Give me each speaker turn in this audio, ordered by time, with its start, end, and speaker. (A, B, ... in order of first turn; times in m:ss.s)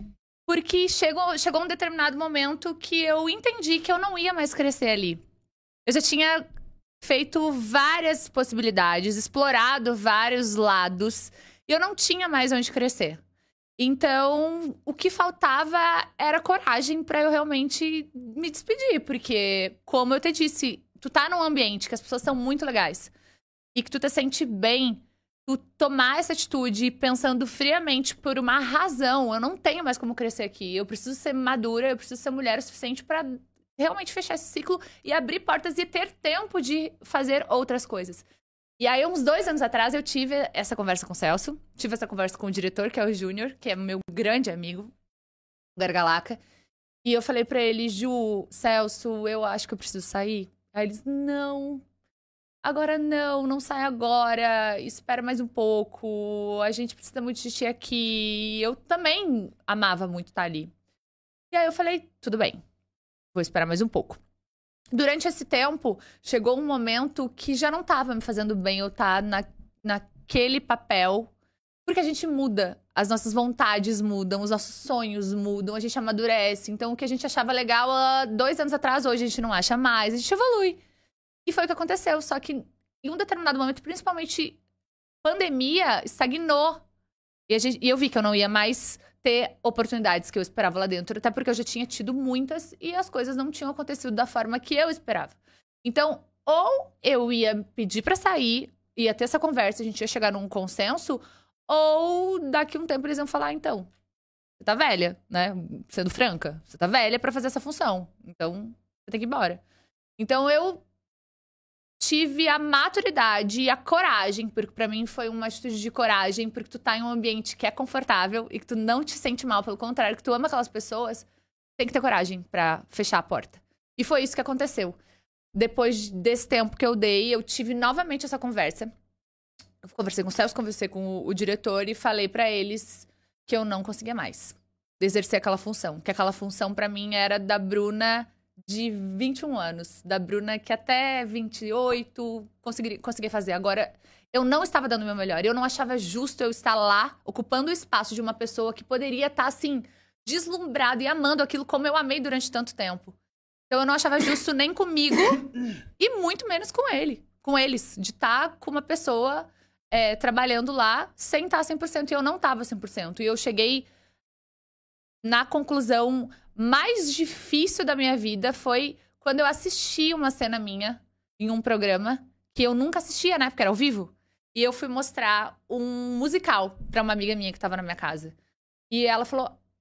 0:00.5-0:05.2 A
0:05.8-0:06.4 A
0:07.0-0:13.2 A
0:13.8-0:23.1 A
0:23.7-0:38.2 A
0:38.8-0:44.9 A
0:45.8-0:46.4 A
0:47.0-0:51.8 A
0:52.6-1:00.7 A
1:01.5-1:02.6 A
1:03.3-1:04.2 A
1:04.9-1:11.3 A
1:11.8-1:20.8 A
1:21.4-1:24.6 A
1:25.2-1:26.8 A
1:27.5-1:43.9 A
1:44.6-1:49.6 A
1:50.2-1:50.8 A
1:52.0-2:01.2 A
2:01.8-2:05.0 A
2:05.5-2:08.9 A
2:09.8-2:33.1 A
2:33.7-2:43.9 A
2:45.2-2:58.3 A
2:58.9-2:59.6 A